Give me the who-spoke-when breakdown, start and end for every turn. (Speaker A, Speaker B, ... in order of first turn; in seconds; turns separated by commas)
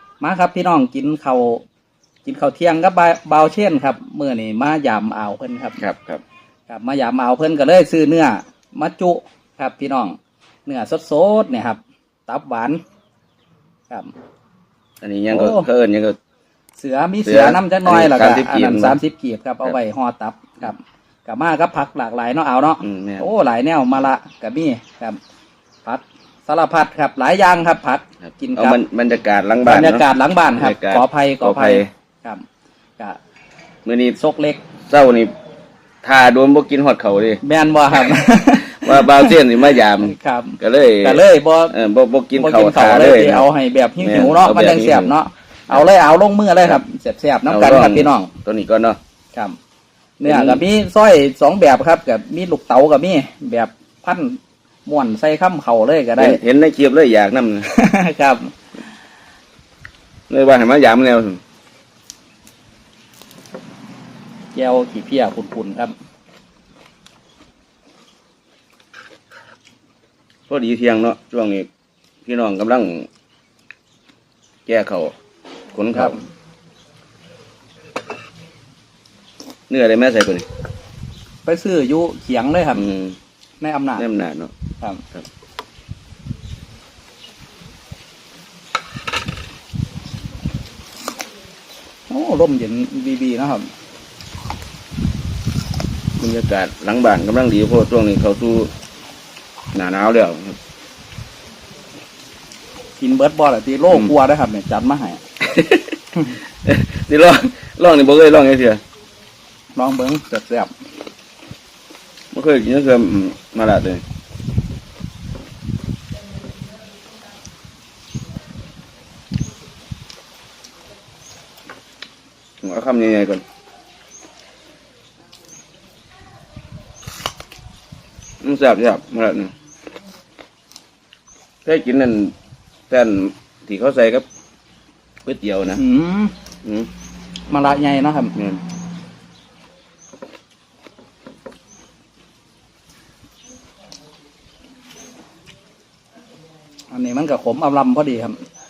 Speaker A: 0.2-1.6, Speaker A: 2.2-5.8, Speaker B: 5.8-6.2, Speaker A: 6.7-12.8, Speaker B: 15.0-16.2, Speaker A: 15.3-15.7, Speaker A: 16.8-25.2, Speaker B: 17.2-19.0, Speaker B: 22.8-23.3, Speaker A: 25.8-28.8, Speaker B: 28.6-31.9, Speaker A: 29.6-32.5, Speaker B: 33.8-34.2, Speaker A: 34.1-34.6, Speaker B: 34.8-35.3, Speaker B: 36.0-37.4, Speaker A: 37.4-41.8, Speaker B: 37.9-43.5, Speaker A: 42.3-48.3, Speaker B: 44.0-45.1, Speaker B: 47.5-49.0, Speaker A: 50.2-56.4, Speaker B: 50.2-50.6, Speaker B: 56.2-57.7, Speaker A: 57.6-58.6, Speaker B: 60.3-61.4, Speaker A: 64.5-65.9, Speaker B: 70.5-71.7, Speaker B: 72.2-73.1, Speaker B: 74.7-75.1, Speaker B: 75.7-76.2, Speaker A: 75.9-76.2, Speaker B: 79.7-80.5, Speaker A: 81.4-82.9, Speaker B: 82.7-83.2, Speaker A: 83.6-84.0, Speaker B: 84.0-84.5, Speaker A: 92.1-93.7, Speaker B: 96.2-98.7, Speaker B: 99.7-100.6, Speaker A: 103.0-105.2, Speaker B: 105.4-108.8, Speaker A: 109.7-110.7, Speaker B: 112.3-114.0, Speaker B: 122.6-123.4, Speaker B: 128.4-129.5, Speaker B: 131.6-132.3, Speaker B: 132.9-134.2, Speaker B: 135.2-135.8, Speaker A: 135.7-136.3, Speaker B: 136.6-136.9, Speaker A: 137.5-138.3, Speaker B: 138.3-138.6, Speaker A: 146.9-148.4